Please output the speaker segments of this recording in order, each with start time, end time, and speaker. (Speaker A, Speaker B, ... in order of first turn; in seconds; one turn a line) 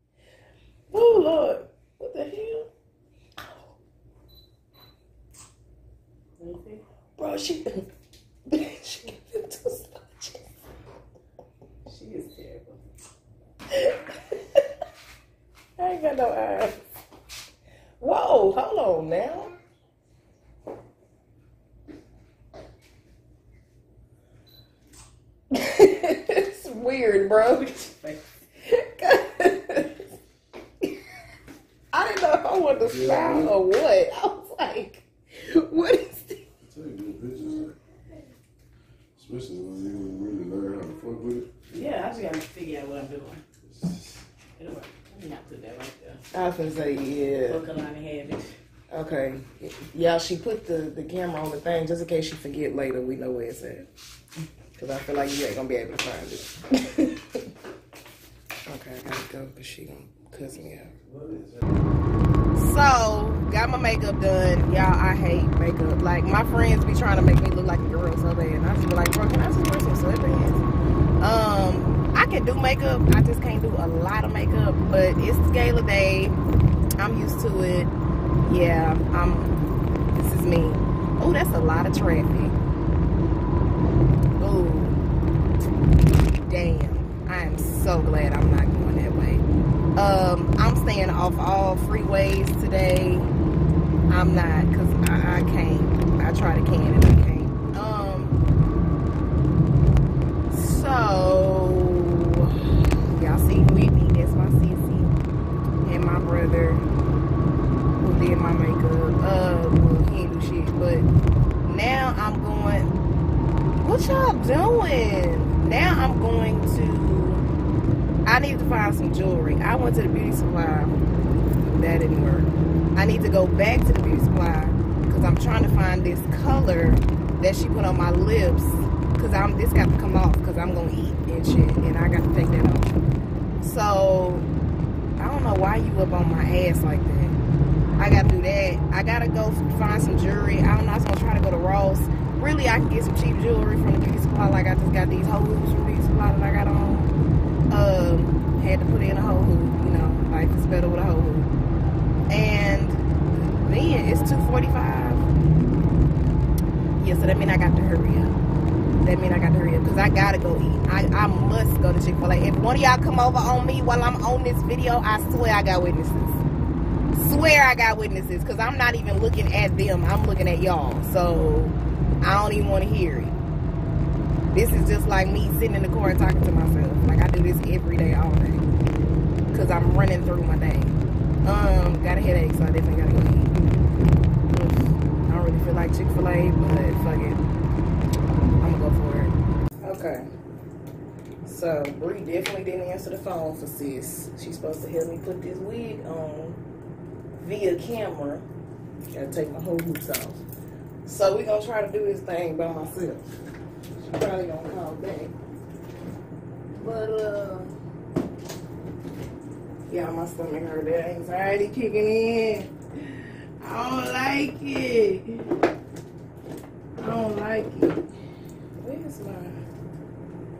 Speaker A: 0.9-2.7
Speaker B: 6.4-6.8
Speaker A: 7.2-7.8
Speaker A: 8.5-10.4
Speaker B: 11.9-12.8
Speaker A: 13.7-14.3
Speaker A: 15.8-16.8
Speaker A: 18.0-19.5
Speaker A: 25.5-27.7
Speaker B: 27.4-28.2
Speaker A: 28.7-30.0
Speaker A: 31.9-36.4
Speaker C: 32.8-33.6
Speaker C: 36.6-37.7
Speaker C: 39.2-41.5
Speaker B: 41.7-43.4
Speaker C: 43.7-44.2
Speaker B: 44.6-46.2
Speaker A: 46.3-47.6
Speaker B: 47.4-48.5
Speaker A: 48.9-53.9
Speaker A: 54.8-57.4
Speaker A: 58.6-60.9
Speaker C: 60.9-61.7
Speaker A: 62.5-70.6
Speaker A: 71.2-76.3
Speaker A: 77.0-77.9
Speaker A: 78.4-79.5
Speaker A: 80.1-82.6
Speaker A: 84.4-85.0
Speaker A: 86.4-89.4
Speaker A: 90.0-93.3
Speaker A: 94.1-98.4
Speaker A: 100.5-102.5
Speaker A: 103.1-105.1
Speaker A: 105.8-106.8
Speaker A: 108.0-111.1
Speaker A: 111.6-113.0
Speaker A: 113.8-117.5
Speaker A: 118.2-120.9
Speaker A: 121.6-132.9
Speaker A: 133.6-134.5
Speaker A: 135.2-137.4
Speaker A: 138.0-147.1
Speaker A: 147.7-151.5
Speaker A: 152.3-155.2
Speaker A: 157.0-158.3
Speaker A: 159.0-166.4
Speaker A: 167.1-173.4
Speaker A: 174.5-178.7
Speaker A: 179.5-183.6
Speaker A: 184.5-187.4
Speaker A: 188.6-190.3
Speaker A: 191.4-196.6
Speaker A: 197.4-198.4
Speaker A: 199.1-200.4
Speaker A: 201.0-203.3
Speaker A: 204.0-205.3
Speaker A: 206.8-207.7
Speaker A: 209.9-212.7
Speaker A: 213.6-215.4
Speaker A: 217.0-218.0
Speaker A: 218.8-219.6